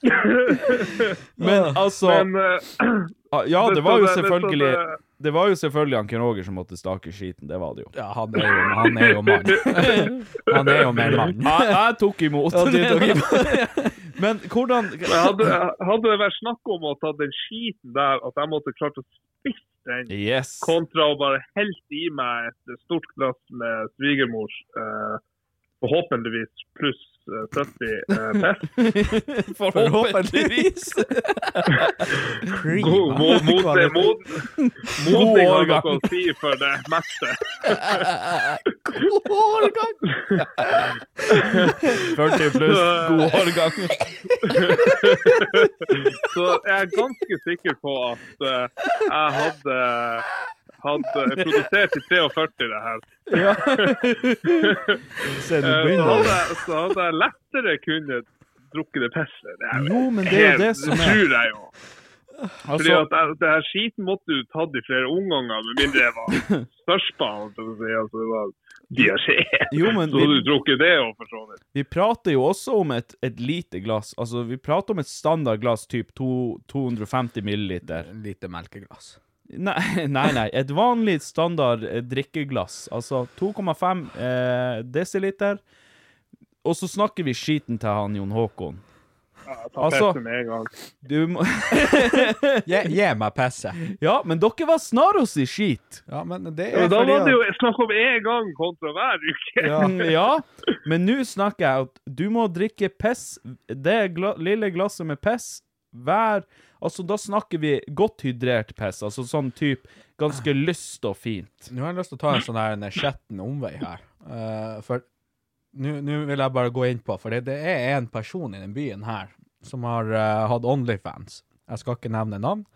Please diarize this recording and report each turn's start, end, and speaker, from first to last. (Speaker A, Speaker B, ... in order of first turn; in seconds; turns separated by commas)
Speaker A: 0.1-1.1, Speaker B: 1.4-1.8, Speaker C: 1.4-2.3, Speaker A: 1.9-5.0, Speaker C: 3.3-7.9, Speaker B: 7.9-11.8, Speaker A: 8.8-9.9, Speaker C: 9.8-10.1, Speaker A: 10.5-11.3, Speaker C: 11.4-15.5, Speaker B: 12.5-14.0, Speaker A: 15.1-25.2, Speaker C: 20.1-20.7, Speaker A: 25.8-28.7, Speaker C: 28.4-32.1, Speaker B: 29.7-31.0, Speaker B: 32.5-34.2, Speaker A: 32.8-38.0, Speaker C: 34.6-36.0, Speaker C: 37.7-39.9, Speaker B: 39.2-39.9, Speaker A: 41.3-41.7, Speaker C: 42.0-44.1, Speaker A: 42.6-43.5, Speaker A: 44.4-50.3, Speaker A: 50.8-54.0, Speaker C: 53.3-56.4, Speaker A: 54.6-55.0, Speaker A: 55.6-61.7, Speaker C: 59.7-61.2, Speaker C: 62.6-63.1, Speaker A: 62.7-71.6, Speaker C: 69.7-70.5, Speaker C: 71.7-78.1, Speaker B: 77.9-79.2, Speaker C: 79.5-85.6, Speaker C: 86.6-88.8, Speaker A: 89.5-90.7, Speaker C: 89.8-90.2, Speaker C: 91.0-92.7, Speaker B: 92.6-93.8, Speaker C: 93.8-96.0, Speaker B: 96.1-97.4, Speaker A: 96.7-100.1, Speaker B: 99.6-100.0, Speaker C: 99.8-111.7, Speaker B: 111.7-115.0, Speaker B: 115.7-122.7